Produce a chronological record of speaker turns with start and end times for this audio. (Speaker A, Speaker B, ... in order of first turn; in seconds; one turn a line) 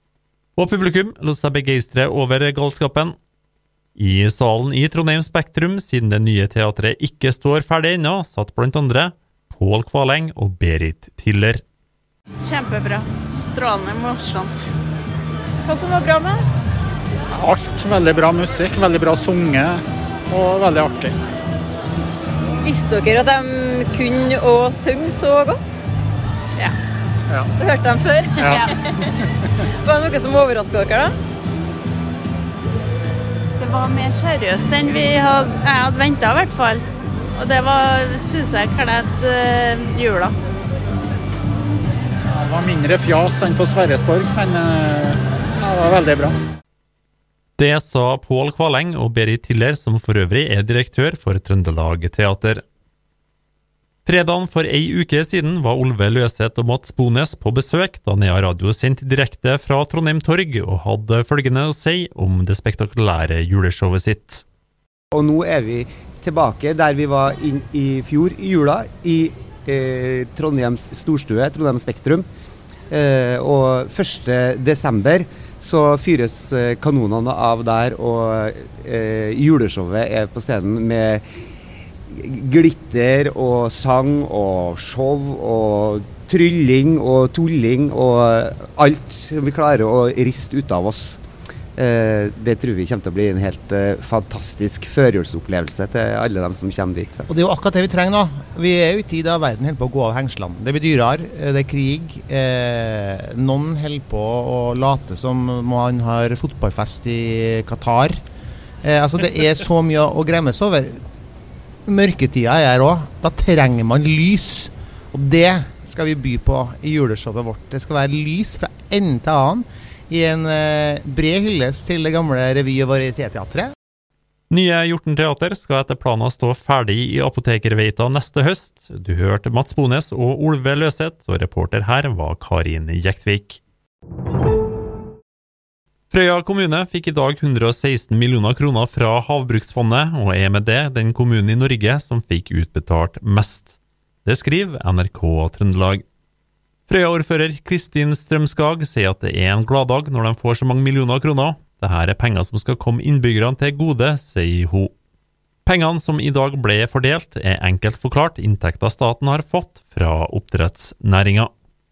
Speaker A: 0.6-3.1
Speaker A: 4.0-11.6
Speaker B: 12.4-14.7
Speaker B: 15.7-16.4
Speaker C: 17.4-21.1
Speaker D: 22.6-25.8
Speaker D: 27.6-28.4
Speaker C: 28.3-28.7
Speaker D: 29.8-31.1
Speaker B: 33.6-36.8
Speaker B: 37.4-40.3
Speaker C: 42.4-46.4
Speaker A: 47.6-52.6
Speaker A: 54.1-64.4
Speaker E: 65.1-72.3
Speaker E: 72.9-81.2
Speaker E: 82.1-91.2
Speaker E: 91.8-97.3
Speaker F: 97.3-108.2
Speaker F: 108.8-111.0
Speaker F: 111.9-123.7
Speaker A: 124.5-133.6
Speaker A: 136.1-146.0
Speaker A: 146.9-154.9
Speaker A: 155.7-161.5